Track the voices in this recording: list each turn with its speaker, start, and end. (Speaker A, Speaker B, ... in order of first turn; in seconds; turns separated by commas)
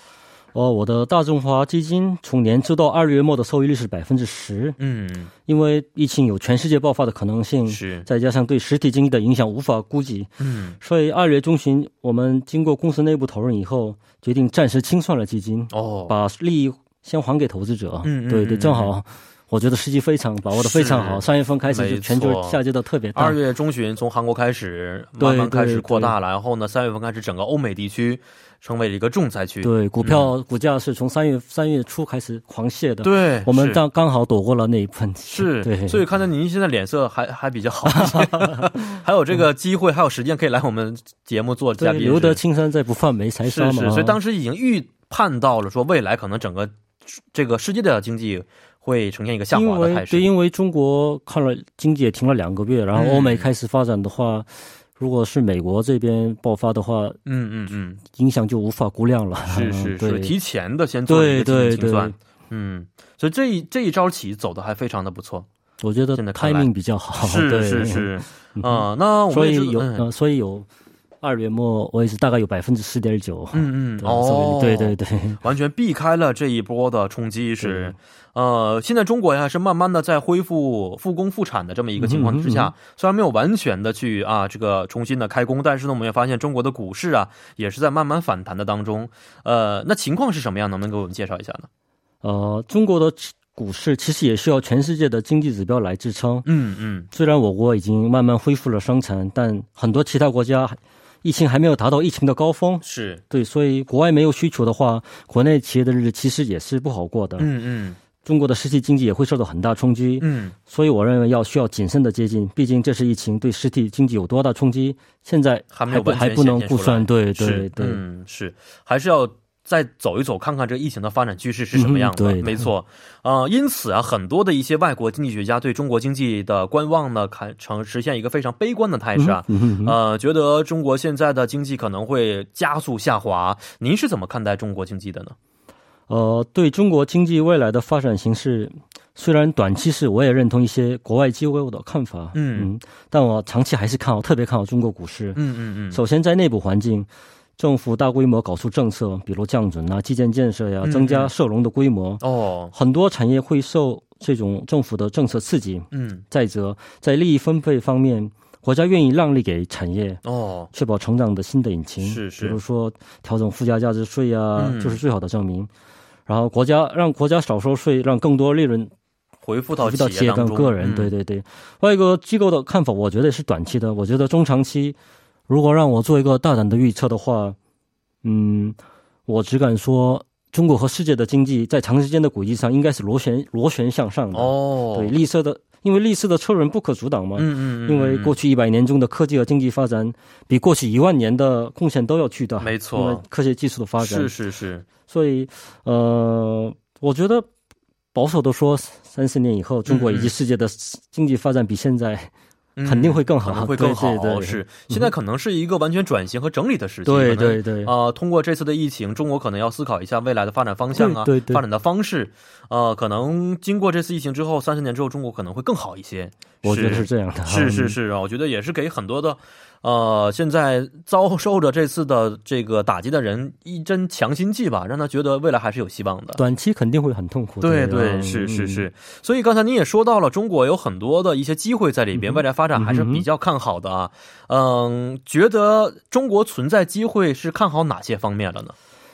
Speaker A: 0.5-4.8, Speaker B: 4.8-5.3, Speaker A: 5.5-23.4, Speaker B: 7.7-8.1, Speaker B: 10.4-10.8, Speaker B: 15.7-16.1, Speaker B: 18.0-18.9, Speaker B: 20.5-22.6, Speaker B: 23.1-30.3, Speaker A: 25.2-26.1, Speaker A: 29.6-36.0, Speaker B: 33.0-33.8, Speaker B: 35.3-42.4, Speaker A: 37.9-38.8, Speaker A: 41.8-44.2, Speaker B: 43.4-50.3, Speaker A: 49.5-57.2, Speaker B: 52.9-53.5, Speaker B: 57.2-58.0, Speaker A: 58.0-60.3, Speaker B: 59.4-65.5, Speaker A: 61.1-62.1, Speaker A: 65.8-70.7, Speaker B: 66.1-66.7, Speaker B: 67.2-70.0, Speaker A: 71.2-75.4, Speaker B: 73.5-91.7, Speaker A: 77.6-77.9, Speaker A: 82.0-82.7, Speaker A: 92.2-96.5, Speaker B: 96.4-97.1, Speaker A: 97.1-107.5, Speaker B: 102.8-103.2, Speaker B: 107.4-108.0, Speaker A: 108.2-118.0, Speaker B: 110.2-110.5, Speaker B: 115.7-135.3, Speaker A: 121.7-122.7, Speaker A: 129.2-130.0, Speaker A: 136.1-145.4, Speaker B: 142.3-142.7, Speaker B: 145.3-146.0, Speaker A: 145.9-152.2, Speaker B: 150.8-151.3, Speaker B: 152.2-152.7, Speaker A: 152.7-160.2, Speaker B: 155.9-156.2, Speaker B: 160.2-160.7, Speaker A: 160.7-165.7, Speaker B: 162.0-162.6, Speaker B: 164.6-165.0, Speaker A: 166.3-168.9, Speaker B: 169.4-171.1, Speaker A: 169.8-175.0, Speaker A: 175.5-177.6, Speaker A: 178.2-194.3, Speaker B: 184.3-185.1, Speaker B: 187.3-188.3, Speaker B: 192.6-193.2, Speaker B: 194.0-194.8, Speaker A: 195.1-197.5, Speaker A: 198.1-202.3, Speaker B: 199.9-200.3, Speaker B: 202.8-226.4, Speaker A: 202.8-205.1, Speaker A: 207.0-207.9, Speaker A: 210.9-211.6, Speaker A: 216.6-218.0, Speaker A: 226.4-228.9, Speaker B: 227.6-238.7, Speaker A: 232.1-233.2